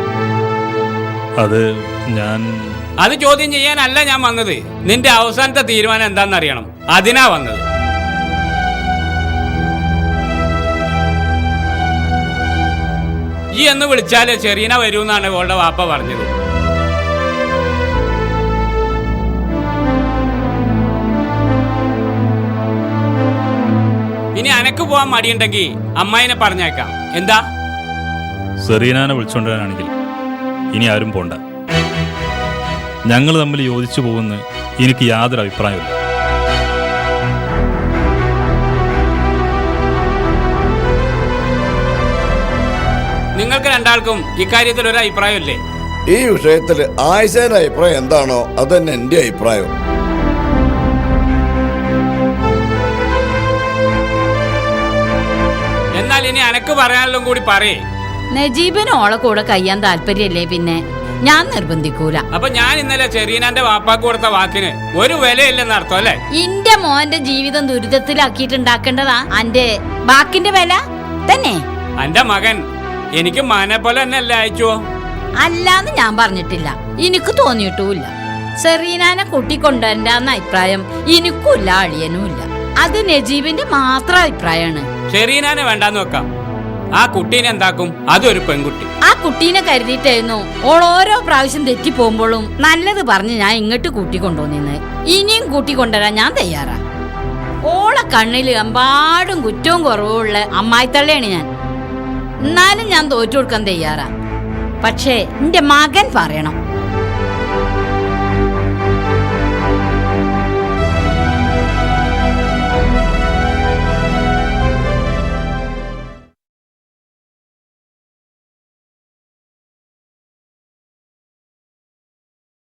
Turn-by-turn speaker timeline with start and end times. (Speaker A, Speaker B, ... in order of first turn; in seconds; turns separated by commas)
Speaker A: 1.4-2.8, Speaker B: 3.0-7.6, Speaker B: 13.6-16.2, Speaker B: 24.3-27.4, Speaker A: 28.6-29.9, Speaker A: 30.7-31.4, Speaker A: 33.1-35.9, Speaker B: 43.4-45.5, Speaker C: 46.1-49.7, Speaker B: 56.0-57.7, Speaker D: 58.3-62.2, Speaker B: 62.4-66.1, Speaker D: 66.3-71.6, Speaker B: 72.0-72.6, Speaker B: 73.2-74.7, Speaker D: 75.4-84.9, Speaker B: 85.1-86.2, Speaker B: 87.0-88.8, Speaker D: 89.0-96.8, Speaker D: 97.6-101.5, Speaker D: 102.4-104.1, Speaker D: 104.8-106.5